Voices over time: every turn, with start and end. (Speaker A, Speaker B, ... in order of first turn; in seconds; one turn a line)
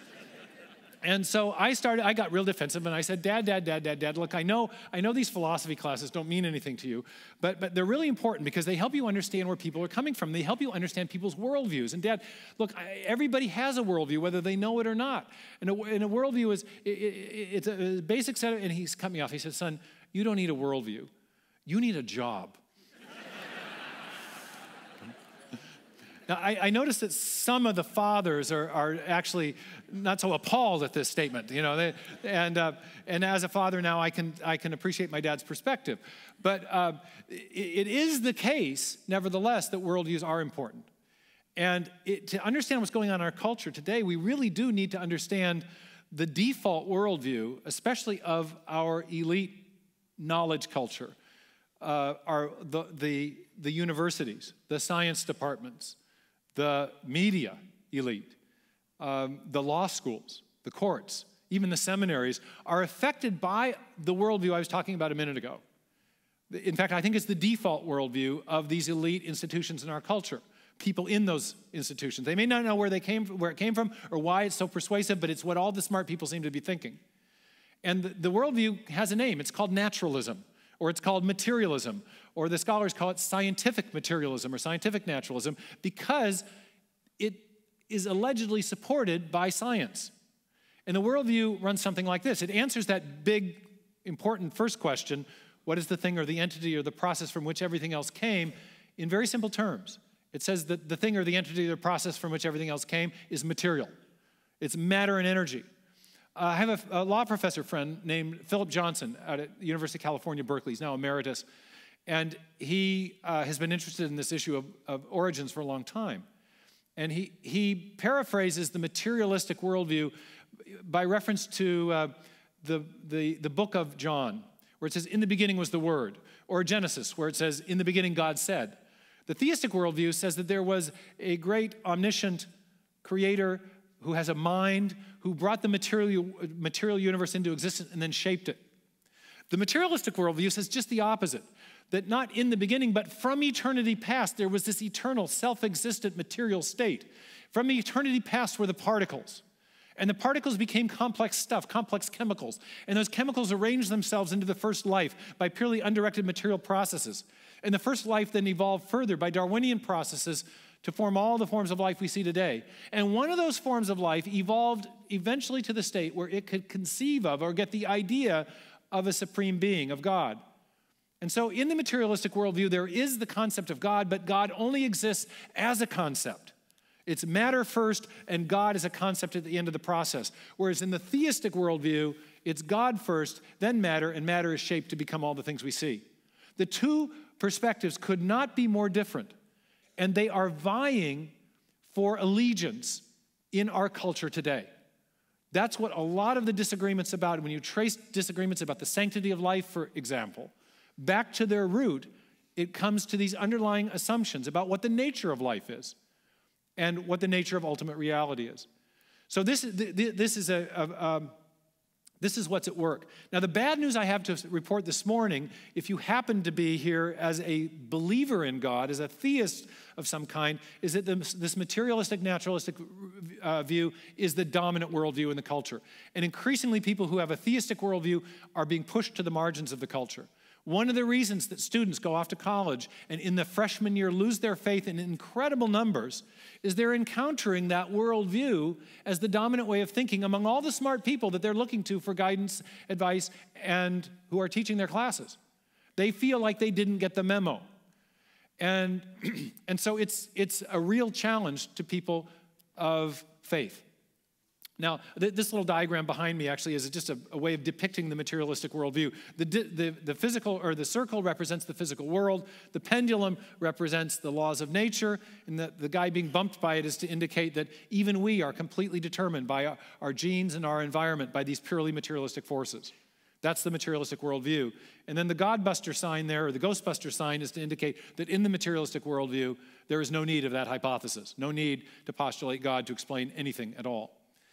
Speaker A: 1.0-21.1
Speaker A: 21.7-22.6
Speaker A: 26.3-40.9
Speaker A: 41.6-51.2
Speaker A: 51.8-56.0
Speaker A: 56.5-58.4
Speaker A: 59.0-65.6
Speaker A: 66.5-77.0
Speaker A: 77.8-86.5
Speaker A: 87.2-90.1
Speaker A: 90.9-103.9
Speaker A: 104.6-105.7
Speaker A: 106.4-111.5
Speaker A: 112.1-116.3
Speaker A: 117.0-132.5
Speaker A: 133.0-138.6
Speaker A: 139.5-149.4
Speaker A: 150.0-170.4
Speaker A: 171.2-176.5
Speaker A: 177.1-186.1
Speaker A: 186.6-189.3
Speaker A: 190.0-191.3
Speaker A: 191.9-194.7
Speaker A: 195.5-206.0
Speaker A: 206.8-208.7
Speaker A: 209.3-211.3
Speaker A: 212.2-245.4
Speaker A: 246.0-247.7
Speaker A: 248.6-253.8
Speaker A: 254.8-284.2